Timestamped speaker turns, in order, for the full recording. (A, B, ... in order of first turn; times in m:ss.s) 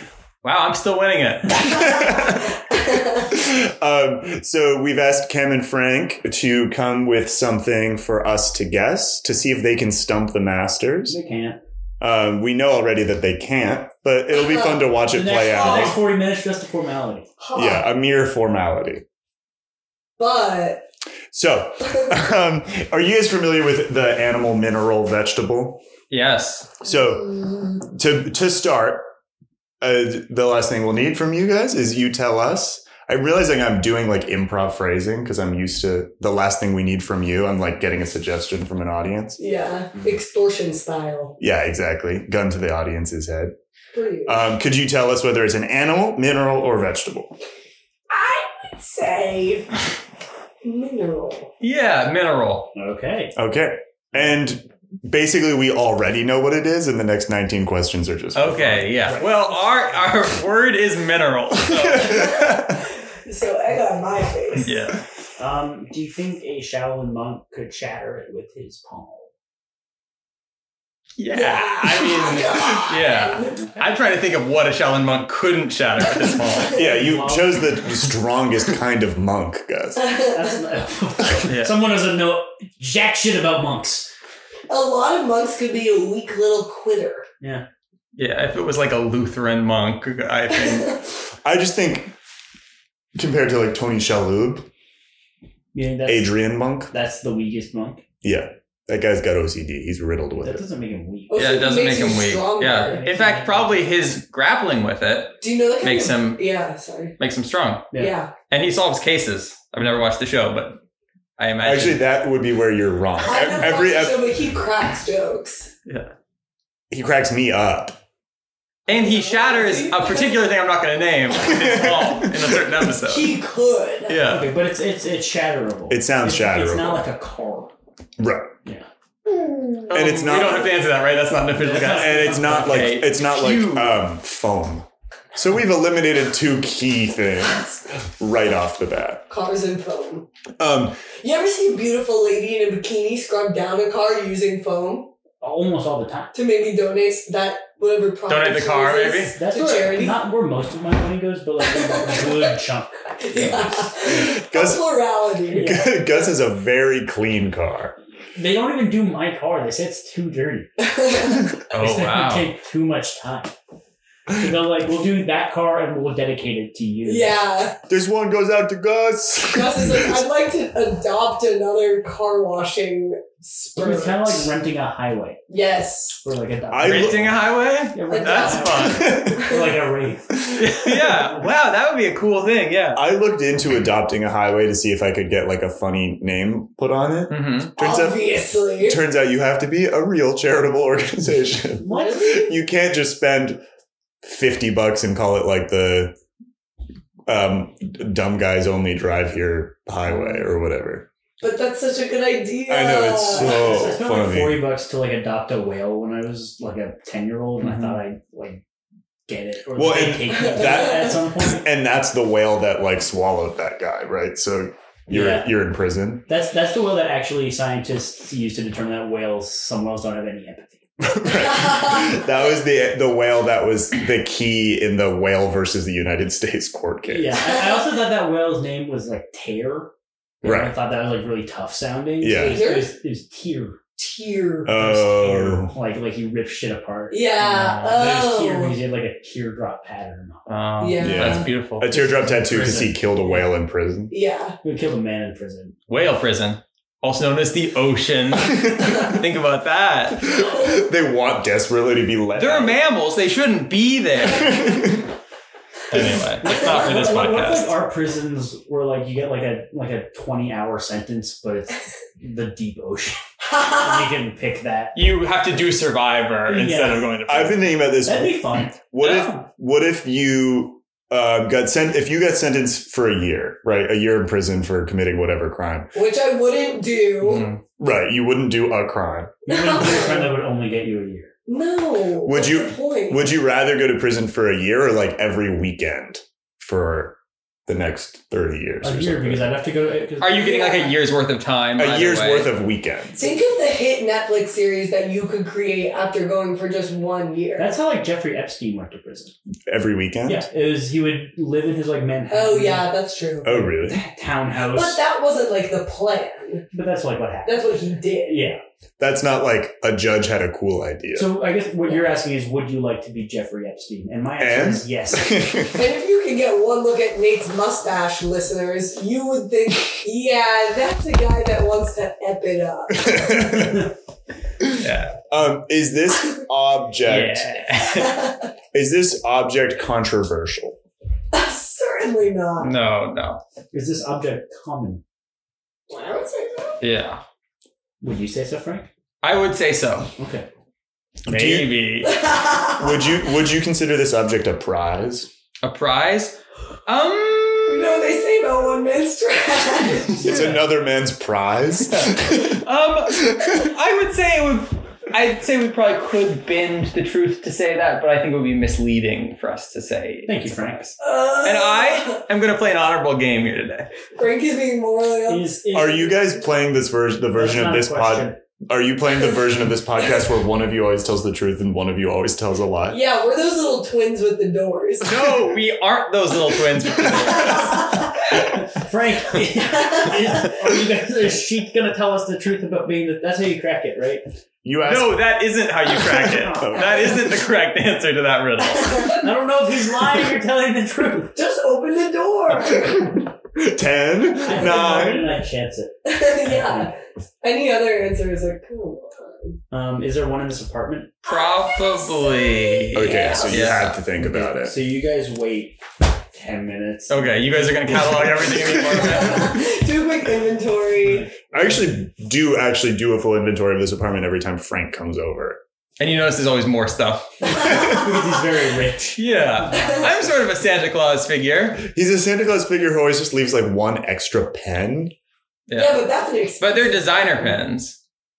0:00.4-0:02.1 A
0:01.7-0:02.4 B
0:02.7-0:03.3 C
0:03.3-0:11.2 B
0:11.1-0:11.6 D
0:12.0-0:16.0 B
0:14.4-0:14.8 C
0:15.1-0:17.3 D
0:15.5-0:16.0 C
0:17.4-0:17.8 C
0:17.6-0:19.0 B
0:20.2-0:20.9 C
0:21.3-0:25.8 B
0:26.1-0:26.7 A
0:26.8-0:29.1 B
0:26.9-0:27.7 C
0:29.8-0:39.4 B
0:39.4-0:41.4 C
0:41.4-0:43.5 B
0:43.9-0:44.5 C
0:44.3-0:47.4 B
0:48.1-0:49.8 C
0:50.6-0:51.5 C
0:51.6-0:52.7 A
0:52.7-0:53.4 D
0:53.4-0:59.0 B
0:58.4-1:02.2 A
0:59.0-0:59.7 D
1:01.7-1:02.8 B
1:02.0-1:04.7 C
1:04.6-1:05.0 A
1:05.4-1:09.3 D
1:11.2-1:16.8 A
1:11.3-1:13.6 C
1:13.5-1:13.8 D
1:16.7-1:20.1 B
1:16.8-1:18.1 D
1:20.0-1:20.4 C
1:20.3-1:24.1 D
1:21.5-1:21.8 A
1:24.7-1:27.3 C
1:28.2-1:31.0 A
1:30.6-1:31.0 C
1:31.4-1:32.1 B
1:33.2-1:34.7 B
1:35.7-1:38.0 D
1:36.1-1:36.9 B
1:38.2-1:40.6 B
1:40.4-1:41.6 D
1:41.3-1:43.0 C
1:41.4-1:46.4 A
1:42.8-1:43.9 D
1:45.4-1:47.2 C
1:47.2-1:47.9 A
1:47.9-1:48.2 D
1:48.0-1:48.3 C
1:48.5-1:50.8 A
1:51.4-1:52.0 A
1:51.6-1:54.3 B
1:53.2-1:55.7 C
1:55.9-1:56.1 A
1:56.9-1:58.0 B
1:58.9-2:03.4 A
1:58.9-2:00.4 C
2:01.4-2:02.8 B
2:03.0-2:04.2 C
2:04.1-2:04.5 A
2:04.2-2:07.7 D
2:05.9-2:07.1 B
2:08.2-2:08.5 B
2:09.3-2:09.8 C
2:09.9-2:14.0 A
2:09.9-2:10.7 B
2:11.5-2:13.0 D
2:11.8-2:19.2 B
2:19.3-2:20.3 C
2:20.6-2:21.0 B
2:21.2-2:25.1 C
2:25.4-2:26.4 D
2:26.3-2:30.2 C
2:28.3-2:29.4 A
2:29.4-2:34.2 D
2:31.6-2:32.5 C
2:33.2-2:35.9 C
2:34.0-2:34.9 B
2:35.5-2:35.9 D
2:35.6-2:38.0 B
2:38.4-2:40.7 D
2:40.8-2:41.4 C
2:41.7-2:42.5 A
2:41.8-2:43.5 D
2:44.3-2:47.4 D
2:47.1-2:47.8 C
2:47.9-2:50.1 B
2:49.4-2:54.5 C
2:53.8-2:55.4 D
2:55.5-2:56.2 C
2:56.2-2:57.4 D
2:56.7-2:57.4 B
2:56.8-2:59.2 A
2:57.9-3:00.6 D
2:58.1-2:59.8 C
2:59.0-2:59.6 B
3:00.3-3:01.1 B
3:00.6-3:03.0 A
3:03.0-3:13.6 B
3:07.3-3:07.7 A
3:07.8-3:09.0 C
3:11.8-3:12.3 D
3:11.8-3:12.6 C
3:14.2-3:16.2 B
3:17.3-3:21.1 B
3:21.4-3:23.7 C
3:22.7-3:24.7 B
3:23.3-3:28.6 D
3:27.6-3:28.0 B
3:29.3-3:31.6 D
3:29.8-3:36.2 B
3:30.3-3:31.2 C
3:35.1-3:35.6 D
3:36.3-3:40.8 D
3:41.0-3:47.5 B
3:41.5-3:42.2 C
3:47.1-3:49.9 D
3:47.5-3:47.8 C
3:50.4-3:53.8 D
3:50.4-3:50.7 B
3:52.2-3:52.7 B
3:52.3-3:52.9 C
3:54.0-3:54.7 C
3:54.6-3:55.7 B
3:54.6-4:00.5 D
3:57.1-3:58.8 C
4:00.5-4:01.9 A
4:00.8-4:01.5 C
4:01.0-4:04.1 B
4:01.8-4:03.4 D
4:04.1-4:04.6 C
4:04.6-4:05.8 D
4:05.9-4:10.3 A
4:10.3-4:12.8 B
4:10.4-4:10.8 C
4:12.4-4:15.0 A
4:14.3-4:15.0 B
4:15.9-4:17.8 A
4:16.4-4:25.0 D
4:24.9-4:27.7 A
4:26.5-4:27.1 D
4:27.3-4:35.9 B
4:28.0-4:29.4 D
4:29.0-4:29.3 A
4:35.9-4:37.5 C
4:37.2-4:37.6 A
4:37.8-4:39.4 B
4:39.5-4:41.3 D
4:39.5-4:40.4 C
4:41.5-4:43.3 C
4:42.2-4:49.5 B
4:48.8-4:50.7 D
4:50.2-4:52.5 A
4:50.4-4:50.9 C
4:51.8-4:53.2 B
4:53.2-4:57.7 C
4:57.6-4:59.4 D
4:59.7-5:00.5 B
5:00.3-5:02.9 D
5:02.3-5:03.5 C
5:03.4-5:04.0 B
5:03.5-5:05.0 D
5:04.7-5:06.6 C
5:06.7-5:07.6 D
5:07.4-5:08.5 C
5:08.2-5:08.6 D
5:09.0-5:11.4 B
5:11.1-5:15.6 D
5:14.4-5:15.8 B
5:15.7-5:23.7 C
5:22.9-5:23.9 B
5:24.6-5:27.6 B
5:24.8-5:25.2 A
5:27.0-5:27.8 D
5:27.5-5:28.2 A
5:28.0-5:28.5 C
5:28.7-5:30.8 B
5:31.3-5:32.7 C
5:32.6-5:33.4 A
5:33.7-5:35.0 D
5:35.9-5:36.8 C
5:36.8-5:37.2 A
5:38.0-5:38.9 D
5:39.2-5:40.1 A
5:40.2-5:40.5 D
5:41.3-5:42.2 A
5:41.3-5:41.8 B
5:42.0-5:42.9 C
5:42.7-5:45.3 B
5:45.6-5:48.2 A
5:47.7-5:50.5 C
5:50.2-5:50.4 A
5:50.2-5:52.6 B
5:50.3-5:50.6 D
5:52.4-6:03.9 A
5:53.2-5:53.7 B
6:00.3-6:00.8 D
6:01.0-6:02.2 C
6:04.1-6:05.5 C
6:05.3-6:06.4 D
6:05.7-6:13.0 B
6:07.4-6:08.4 D
6:12.9-6:15.4 C
6:15.0-6:17.8 A
6:17.1-6:18.1 C
6:18.4-6:24.2 D
6:19.6-6:20.5 C
6:24.6-6:25.4 B
6:24.8-6:29.2 A
6:26.0-6:27.2 B
6:26.6-6:26.9 D
6:28.8-6:29.2 C
6:29.2-6:31.4 D
6:31.4-6:33.2 C
6:33.6-6:35.3 B
6:34.4-6:36.9 D
6:36.0-6:39.6 C
6:39.7-6:41.1 D
6:41.2-6:43.8 C
6:41.2-6:44.0 A
6:42.9-6:44.8 B
6:44.2-6:45.8 D
6:46.3-6:48.2 D
6:47.1-6:49.6 A
6:49.0-6:51.3 C
6:51.0-6:51.7 D
6:51.5-6:55.6 B
6:56.0-6:57.8 A
6:57.6-7:00.3 D
6:59.2-7:01.9 A
6:59.7-7:00.0 C
7:01.8-7:05.1 B
7:05.7-7:08.0 A
7:05.7-7:07.6 C